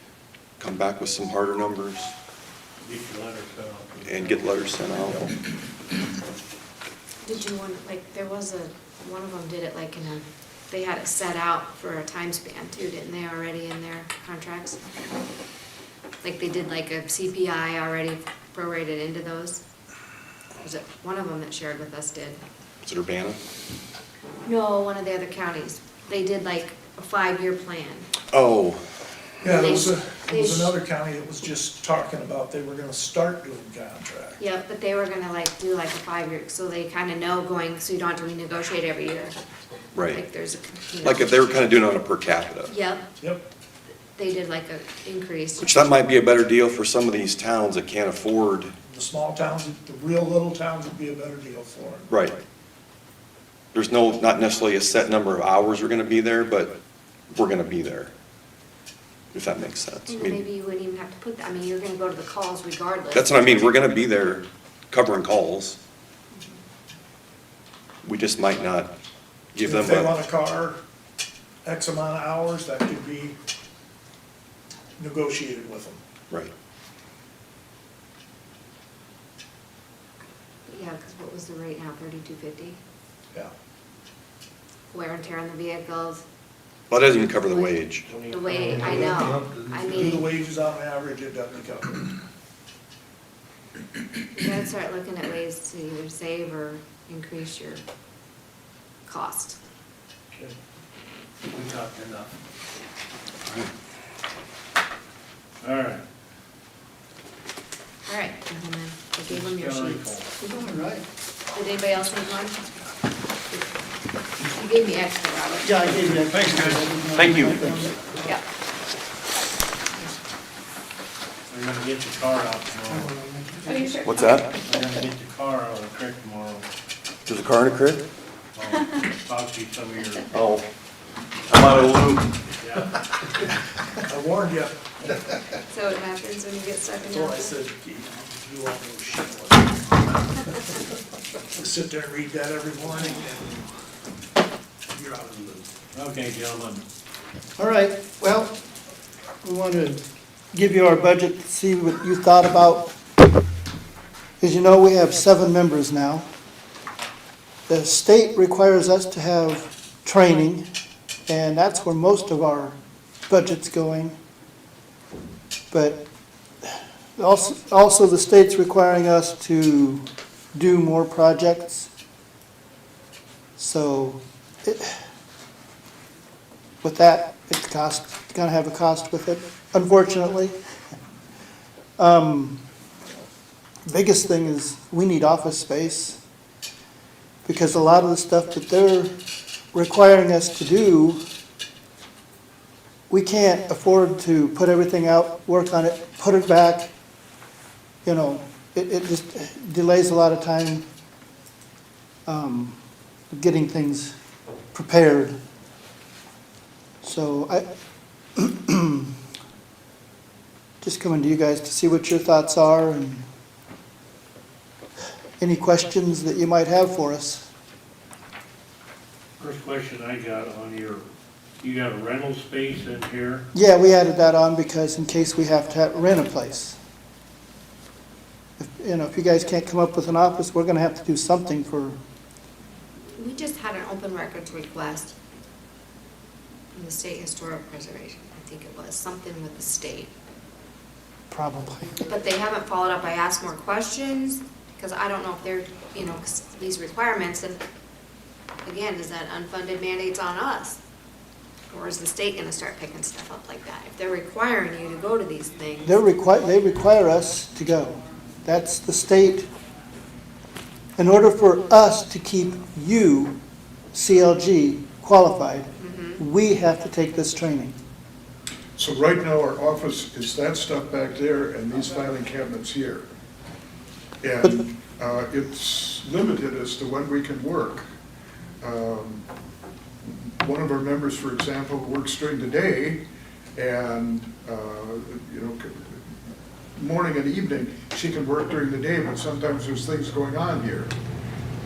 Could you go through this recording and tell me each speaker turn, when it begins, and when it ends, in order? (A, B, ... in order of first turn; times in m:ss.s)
0:00.6-0:02.1 A
0:02.8-0:04.5 B
0:04.0-0:05.3 A
0:07.2-0:14.8 C
0:16.2-0:19.6 C
0:20.6-0:22.4 C
0:22.8-0:23.4 A
0:24.4-0:28.1 C
0:28.3-0:28.8 A
0:29.4-0:34.4 D
0:29.4-0:30.8 C
0:34.4-0:39.3 C
0:40.0-0:40.2 A
0:40.0-0:41.3 C
0:41.0-0:42.7 A
0:42.7-0:43.1 C
0:43.2-0:43.4 D
0:44.2-0:45.8 C
0:45.6-0:48.7 A
0:48.9-0:52.1 D
0:52.1-0:52.4 A
0:53.7-0:56.7 A
0:57.3-0:58.1 A
0:59.3-1:00.4 A
1:00.1-1:03.4 C
1:03.1-1:05.8 A
1:08.0-1:08.9 A
1:09.5-1:10.1 A
1:09.6-1:10.8 D
1:11.6-1:13.4 D
1:15.0-1:16.0 D
1:20.7-1:22.8 C
1:24.9-1:26.2 C
1:26.9-1:28.1 A
1:27.2-1:30.4 C
1:28.1-1:29.5 B
1:28.7-1:32.2 D
1:34.3-1:37.8 C
1:39.1-1:39.6 C
1:41.5-1:42.2 B
1:42.0-1:42.3 D
1:45.6-1:46.0 B
1:48.1-1:50.7 C
1:49.3-1:50.3 B
1:50.4-1:51.0 E
1:51.5-1:52.6 C
1:54.4-1:55.8 C
1:55.6-1:58.1 E
1:56.1-1:56.9 B
1:57.2-1:57.9 A
2:01.5-2:03.2 B
2:02.9-2:03.8 E
2:03.6-2:04.2 C
2:04.0-2:04.5 A
2:04.7-2:06.7 B
2:07.2-2:08.0 A
2:08.6-2:10.2 B
2:10.3-2:10.6 A
2:11.5-2:12.3 A
2:12.6-2:13.0 B
2:14.1-2:15.6 D
2:15.7-2:17.6 C
2:17.0-2:20.0 D
2:21.6-2:23.7 D
2:24.9-2:25.7 D
2:25.9-2:26.8 B
2:27.6-2:28.6 E
2:29.4-2:32.9 E
2:34.4-2:36.2 E
2:37.7-2:40.6 E
2:41.3-2:42.8 E
2:43.3-2:44.2 E
2:45.7-2:46.0 E
2:46.6-2:50.0 E
2:50.6-2:51.9 E
2:53.6-2:55.0 E
2:56.8-3:00.6 E
3:02.0-3:02.6 E
3:03.9-3:06.2 E
3:07.5-3:09.1 E
3:09.7-3:11.2 E
3:13.1-3:16.9 E
3:18.0-3:20.8 E
3:22.3-3:22.8 E
3:23.3-3:24.2 E
3:24.7-3:25.3 E
3:27.0-3:27.7 E
3:28.4-3:29.1 E
3:30.8-3:33.2 E
3:35.4-3:37.5 E
3:39.4-3:41.1 B
3:41.6-3:43.4 B
3:43.5-3:46.8 E
3:48.6-3:52.0 E
3:53.2-3:55.2 C
3:56.8-4:00.1 C
4:01.3-4:01.9 E
4:02.0-4:07.6 C
4:08.6-4:10.8 C
4:11.7-4:16.0 C
4:15.8-4:19.5 E
4:21.0-4:23.4 E
4:23.9-4:27.8 E
4:25.8-4:26.2 C
4:28.8-4:33.0 F
4:34.2-4:37.9 F
4:38.6-4:39.3 F
4:40.0-4:43.0 F
4:43.6-4:46.0 F
4:46.8-4:50.9 F